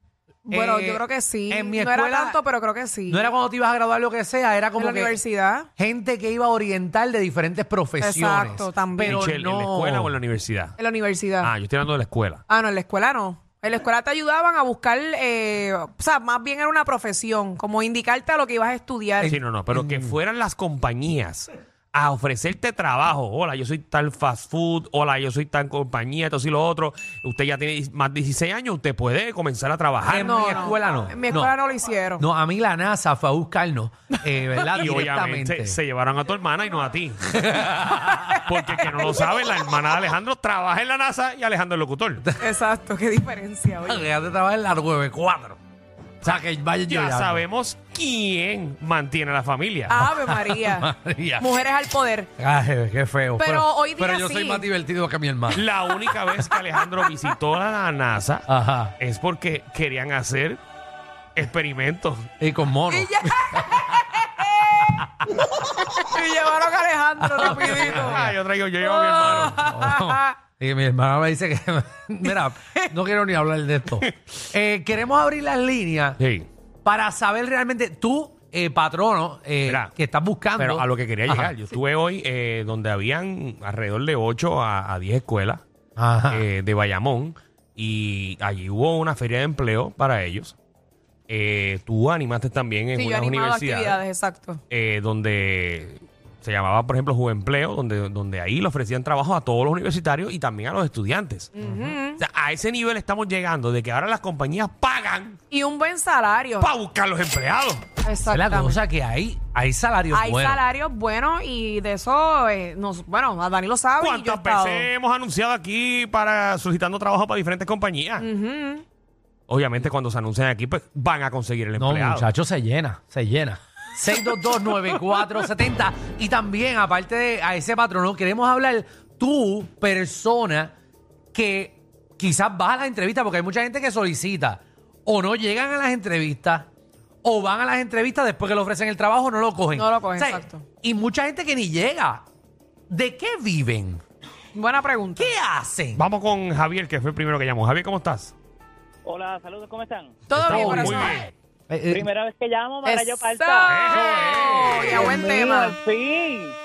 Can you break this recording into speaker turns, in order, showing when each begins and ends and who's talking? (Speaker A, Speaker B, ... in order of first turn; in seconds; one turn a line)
Speaker A: 0.5-3.3
Speaker B: 0.5-2.4
Speaker B: 3.1-5.2
Speaker A: 4.8-5.7
Speaker B: 5.8-10.2
Speaker A: 8.0-9.2
Speaker C: 9.0-10.8
Speaker A: 10.8-11.5
Speaker C: 11.4-12.4
Speaker A: 12.5-19.3
Speaker B: 19.2-20.2
Speaker C: 19.3-30.5
Speaker B: 30.1-31.5
Speaker A: 30.2-32.2
Speaker B: 32.2-35.8
Speaker C: 34.7-37.3
Speaker B: 37.3-38.3
Speaker A: 38.0-38.4
Speaker C: 38.4-42.2
Speaker A: 42.4-44.0
Speaker B: 43.8-45.6
Speaker B: 46.2-47.4
Speaker C: 46.2-50.0
Speaker A: 49.9-52.3
Speaker B: 50.0-51.6
Speaker B: 52.4-55.6
Speaker A: 53.4-54.7
Speaker C: 55.5-58.5
Speaker B: 58.5-58.9
Speaker C: 59.0-60.6
Speaker C: 61.4-62.3
Speaker B: 62.4-63.8
Speaker A: 62.9-65.0
Speaker A: 66.0-68.2
Speaker B: 67.2-68.4
Speaker C: 67.4-69.6
Speaker A: 68.8-70.3
Speaker B: 69.2-76.2
Speaker C: 76.2-76.5
Speaker B: 76.8-81.5
Speaker C: 79.7-79.9
Speaker C: 80.6-85.6
Speaker B: 86.0-86.5
Speaker C: 86.3-90.5
Speaker C: 91.3-94.0
Speaker A: 92.9-94.6
Speaker C: 94.7-101.5
Speaker A: 101.5-102.2
Speaker B: 101.6-101.9
Speaker C: 102.2-105.4
Speaker A: 105.5-106.7
Speaker C: 106.6-107.9
Speaker A: 108.0-108.8
Speaker B: 108.3-110.6
Speaker A: 110.1-114.9
Speaker C: 114.0-118.3
Speaker A: 118.2-118.8
Speaker C: 119.5-122.2
Speaker B: 121.8-130.7
Speaker B: 131.3-136.7
Speaker B: 137.2-142.2
Speaker A: 139.7-140.6
Speaker B: 142.9-144.0
Speaker A: 144.5-145.3
Speaker B: 145.2-146.0
Speaker C: 145.9-148.3
Speaker D: 149.1-150.1
Speaker A: 150.3-151.3
Speaker B: 150.4-151.1
Speaker C: 150.4-151.3
Speaker B: 151.7-152.1
Speaker D: 151.9-156.5
Speaker A: 152.8-155.8
Speaker C: 153.7-155.1